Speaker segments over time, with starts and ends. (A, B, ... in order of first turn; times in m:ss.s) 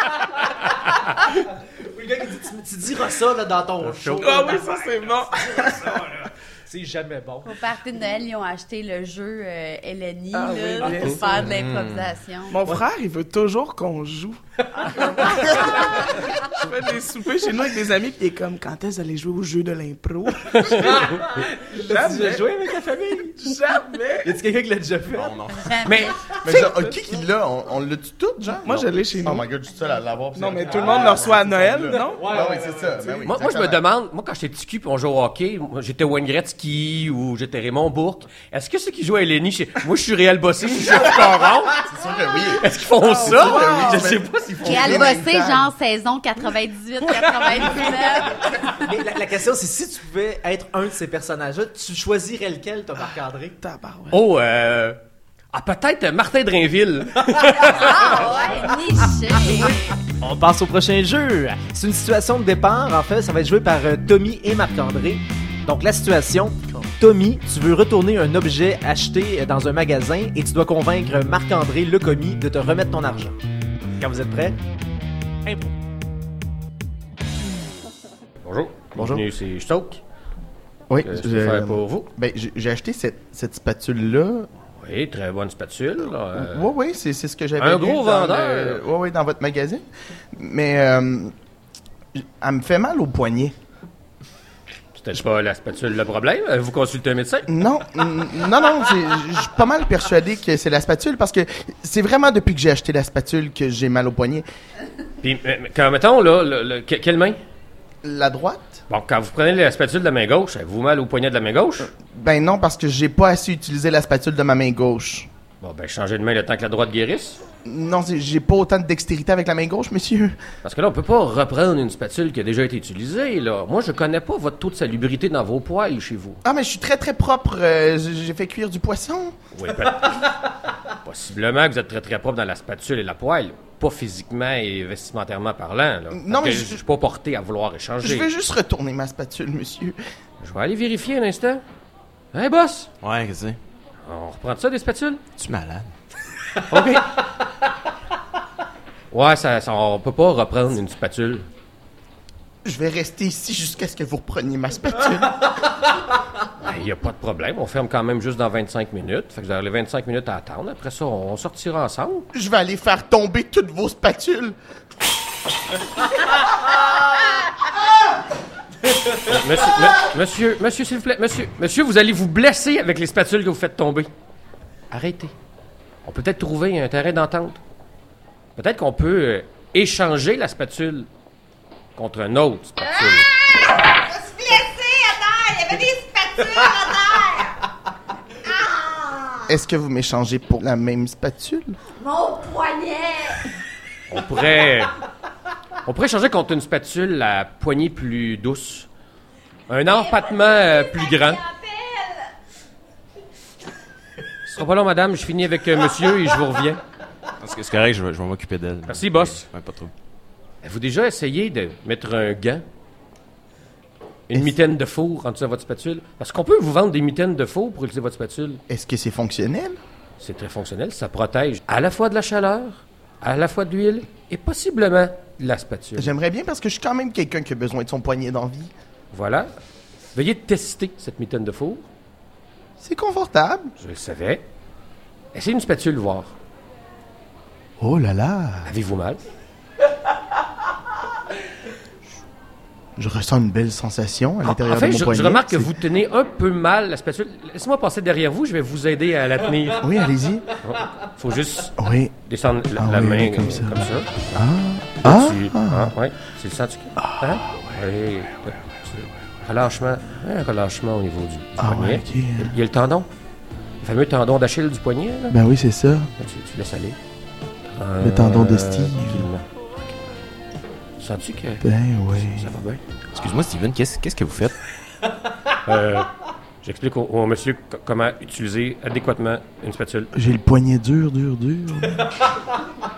0:01.8-0:07.6 A
0:03.8-0:04.4 B
0:04.2-0:06.0 C
0:07.4-0:12.6 D
0:10.3-0:11.4 C
0:11.4-0:12.1 E
0:12.5-0:14.4 C
0:15.0-0:20.9 C
0:20.6-0:20.9 B
0:20.8-0:23.5 A
0:21.7-0:22.5 C
0:23.4-0:24.4 C
0:24.2-0:25.3 A
0:25.1-0:25.9 E
0:25.6-0:26.1 D
0:25.8-0:26.2 B
0:26.4-0:33.8 F
0:26.5-0:26.9 C
0:28.6-0:29.4 C
0:30.4-0:32.4 C
0:32.0-0:33.2 A
0:33.2-0:41.8 B
0:41.8-0:45.7 F
0:42.6-0:45.1 B
0:43.2-0:44.2 C
0:44.6-0:48.7 D
0:48.7-0:53.6 A
0:53.6-0:54.2 C
0:54.1-0:55.0 B
0:55.5-0:58.3 B
0:57.6-1:00.0 D
1:00.2-1:13.4 A
1:14.0-1:14.6 A
1:15.4-1:15.7 A
1:18.4-1:20.0 B
1:19.0-1:19.2 F
1:20.9-1:24.5 F
1:21.0-1:22.1 B
1:24.8-1:26.7 B
1:26.3-1:31.3 F
1:27.6-1:28.8 B
1:32.2-1:33.5 F
1:35.0-1:37.5 B
1:37.5-1:44.4 F
1:45.2-1:47.4 B
1:48.0-1:48.8 F
1:48.9-1:51.9 B
1:52.0-1:55.3 F
1:55.6-1:57.4 B
1:57.6-2:00.4 F
2:00.6-2:06.4 B
2:06.4-2:09.4 F
2:09.5-2:10.3 B
2:11.0-2:18.3 B
2:16.1-2:16.8 F
2:18.0-2:20.0 F
2:20.4-2:21.6 B
2:22.3-2:22.9 B
2:23.0-2:23.6 E
2:24.0-2:25.2 B
2:25.4-2:25.9 E
2:26.7-2:27.1 B
2:29.1-2:31.5 B
2:32.6-2:35.4 F
2:36.6-2:42.3 B
2:42.3-2:44.6 F
2:49.1-2:54.1 B
2:54.9-2:55.3 B
2:56.0-2:57.6 B
2:58.6-3:01.1 B
3:02.0-3:03.3 B
3:03.0-3:07.5 D
3:08.4-3:09.5 D
3:09.5-3:11.8 F
3:12.0-3:13.5 D
3:14.1-3:14.9 B
3:15.8-3:18.9 B
3:19.7-3:21.4 B
3:20.1-3:22.2 D
3:24.4-3:26.8 B
3:27.4-3:29.9 E
3:28.8-3:29.4 B
3:30.6-3:32.6 B
3:34.3-3:38.6 B
3:38.7-3:39.8 F
3:40.2-3:46.1 B
3:46.0-3:48.7 F
3:49.1-3:49.5 B
3:50.1-3:51.9 B
3:52.8-3:53.7 F
3:53.8-3:54.4 B
3:55.3-3:56.3 B
3:57.8-3:58.7 F
3:58.6-3:59.2 B
4:03.0-4:05.7 F
4:04.4-4:09.9 B
4:09.8-4:10.5 F
4:10.6-4:14.4 B
4:11.8-4:12.1 F
4:12.8-4:15.9 F
4:15.0-4:23.1 B
4:17.0-4:17.8 F
4:21.6-4:22.5 F
4:23.8-4:25.4 B
4:25.3-4:26.1 F
4:26.2-4:27.0 B
4:27.8-4:29.4 B
4:28.0-4:29.2 F
4:31.0-4:32.8 B
4:31.6-4:32.5 F
4:33.1-4:34.6 E
4:35.6-4:36.1 B
4:36.6-4:40.1 B
4:40.1-4:42.1 F